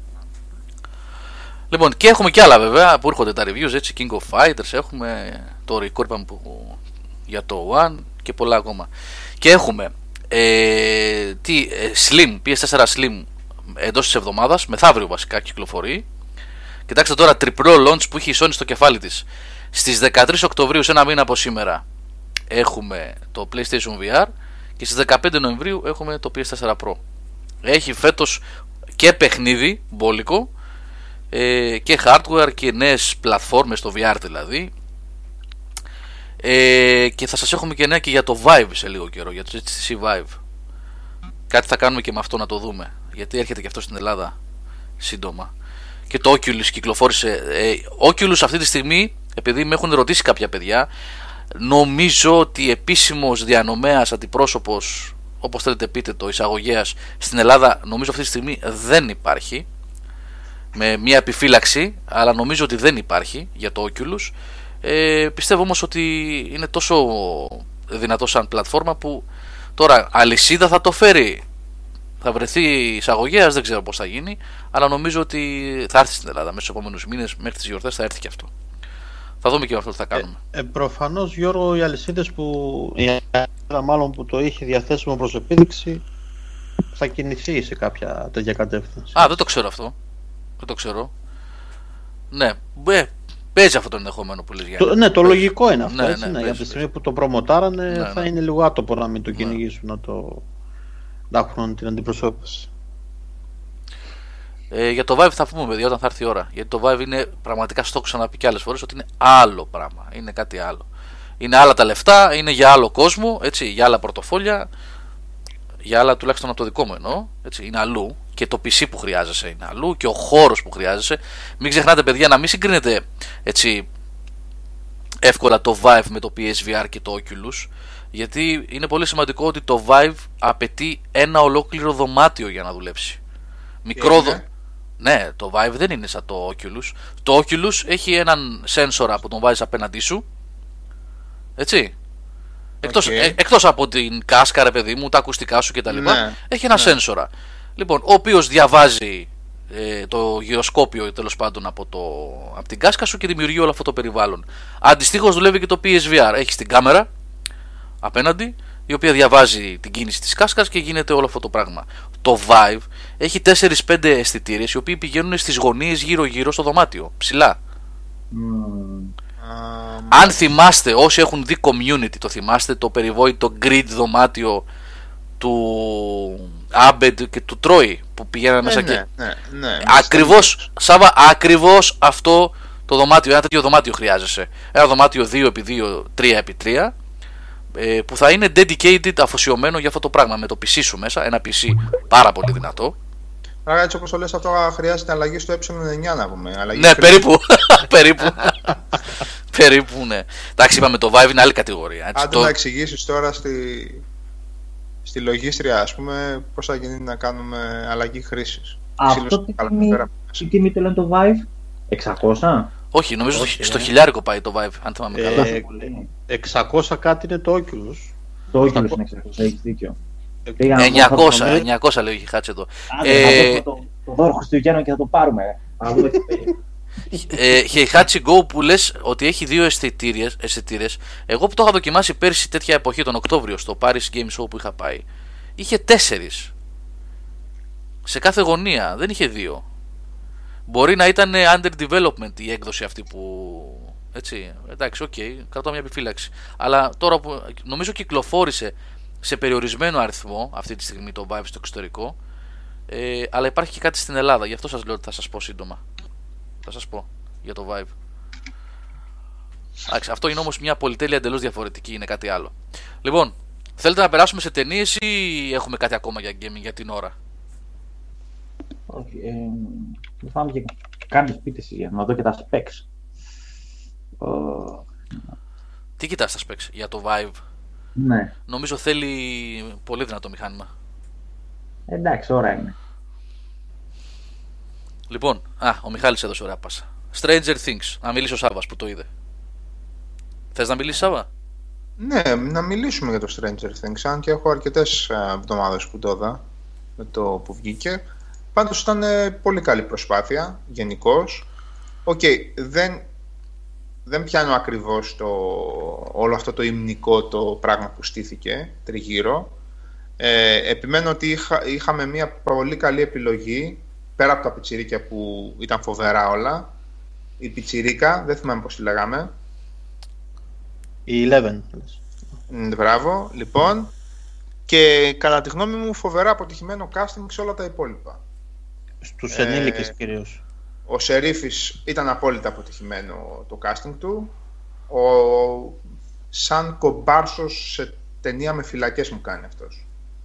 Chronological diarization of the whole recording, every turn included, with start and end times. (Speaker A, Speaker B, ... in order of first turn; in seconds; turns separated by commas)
Speaker A: 1.7-6.8, Speaker A: 7.3-8.9, Speaker A: 9.4-16.0, Speaker A: 16.9-21.8, Speaker A: 22.5-27.0, Speaker A: 27.6-28.4, Speaker A: 29.0-30.5, Speaker A: 31.3-34.7, Speaker A: 36.4-40.4, Speaker A: 41.5-44.3, Speaker A: 45.0-45.5, Speaker A: 46.1-50.9, Speaker A: 51.6-59.6, Speaker A: 60.7-64.3, Speaker A: 64.8-69.2, Speaker A: 69.8-71.4, Speaker A: 72.2-78.5, Speaker A: 79.4-80.4, Speaker B: 80.1-86.0, Speaker B: 86.9-89.4, Speaker A: 89.1-89.9, Speaker A: 90.6-91.1, Speaker A: 92.3-96.8, Speaker B: 94.8-100.4, Speaker A: 97.9-98.3, Speaker A: 99.3-99.6, Speaker B: 101.3-102.7, Speaker A: 104.7-110.8, Speaker A: 111.4-114.7, Speaker A: 115.8-123.8, Speaker A: 125.2-133.2, Speaker A: 133.8-134.4, Speaker C: 133.9-134.4, Speaker A: 135.0-140.2, Speaker A: 141.6-141.9, Speaker A: 142.8-157.1, Speaker C: 142.8-143.4, Speaker C: 145.9-147.0, Speaker A: 158.0-167.6, Speaker D: 168.3-169.1, Speaker C: 169.4-170.3, Speaker A: 170.1-174.6, Speaker A: 175.4-179.0, Speaker C: 178.6-180.6, Speaker A: 179.8-186.9, Speaker A: 187.8-192.9, Speaker C: 193.7-197.2, Speaker A: 196.7-198.8, Speaker A: 199.5-202.5, Speaker C: 202.2-204.0, Speaker C: 205.0-210.5, Speaker D: 209.0-212.7, Speaker A: 212.9-215.5, Speaker B: 213.3-213.9, Speaker B: 215.1-215.7, Speaker D: 215.3-216.1, Speaker B: 216.3-218.1, Speaker D: 218.5-220.0, Speaker B: 220.5-221.7, Speaker D: 220.6-221.6, Speaker A: 220.8-223.6, Speaker D: 222.9-226.5, Speaker A: 227.2-235.0, Speaker A: 235.6-236.5, Speaker A: 238.1-239.6, Speaker A: 240.7-252.1, Speaker A: 252.9-255.8, Speaker A: 256.6-257.9, Speaker A: 259.9-267.1, Speaker D: 268.9-272.8, Speaker D: 274.2-274.9, Speaker A: 276.0-277.4, Speaker D: 278.0-278.3, Speaker A: 278.5-280.7, Speaker D: 281.9-282.8, Speaker A: 285.1-289.1, Speaker A: 290.5-291.3, Speaker C: 292.0-296.4, Speaker C: 297.0-298.0, Speaker C: 298.5-301.4, Speaker C: 302.1-303.1, Speaker C: 304.1-309.5, Speaker C: 310.2-316.7, Speaker C: 317.4-319.3, Speaker B: 321.1-322.0, Speaker C: 322.5-323.9, Speaker C: 324.7-328.2, Speaker B: 329.0-330.4, Speaker C: 329.3-329.9, Speaker C: 330.9-334.3, Speaker C: 334.9-335.8, Speaker C: 336.3-339.8